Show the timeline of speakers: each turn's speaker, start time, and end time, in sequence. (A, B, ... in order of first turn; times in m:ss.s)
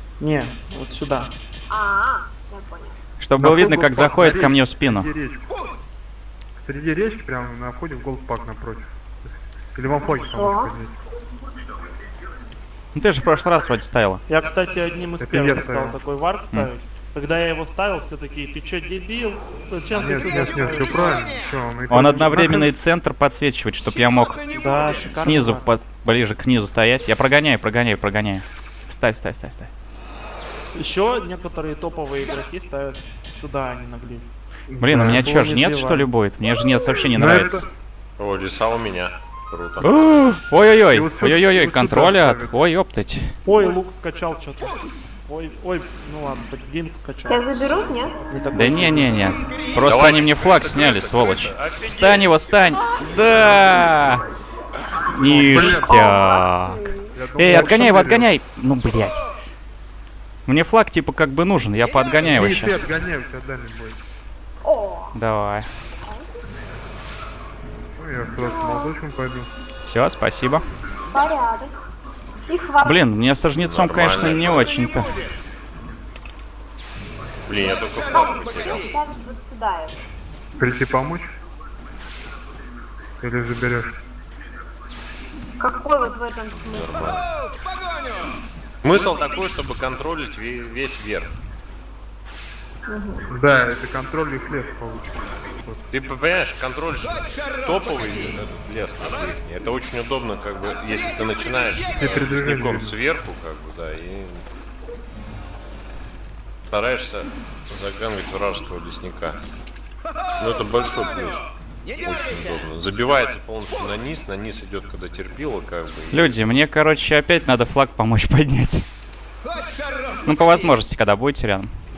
0:00.2-0:01.3 A
0:01.7-0:03.0 B
0:03.2-0:05.1 C
0:03.4-0:05.5 D
0:06.6-0:08.9 D
0:09.7-0:10.9 D
0:10.0-0:10.7 B
0:12.9-0:14.2 C
0:14.3-0:21.3 A
0:15.2-0:16.0 D
0:19.9-0:22.7 D
0:21.9-0:29.7 C
0:24.5-0:25.6 A
0:30.7-0:34.4 A
0:34.7-0:35.2 D
0:34.8-0:37.6 C
0:34.9-0:36.1 A
0:37.1-0:37.6 D
0:38.2-0:39.9 E
0:39.8-0:43.3 C
0:40.9-0:42.6 D
0:43.4-0:49.4 A
0:47.3-0:48.2 B
0:48.5-0:54.2 C
0:49.8-0:52.4 E
0:52.7-0:53.1 B
0:55.1-0:59.2 C
0:55.2-0:56.2 D
0:55.5-0:57.2 B
0:57.1-0:58.3 D
1:00.4-1:02.8 C
1:02.2-1:04.0 D
1:04.6-1:05.2 B
1:05.1-1:05.7 C
1:06.0-1:06.3 B
1:08.0-1:09.5 D
1:08.4-1:08.9 B
1:09.8-1:10.6 C
1:11.1-1:11.7 B
1:12.5-1:13.0 B
1:12.8-1:15.2 C
1:13.6-1:14.9 E
1:17.4-1:18.9 E
1:18.1-1:20.0 B
1:20.6-1:21.3 D
1:23.2-1:24.0 D
1:25.6-1:27.1 B
1:26.5-1:27.2 E
1:28.8-1:31.3 E
1:32.9-1:33.3 B
1:33.3-1:35.9 D
1:35.9-1:44.4 E
1:41.9-1:43.0 D
1:46.7-1:49.4 E
1:50.4-1:51.4 E
1:52.0-1:56.4 E
1:56.1-1:58.8 C
2:00.2-2:01.7 C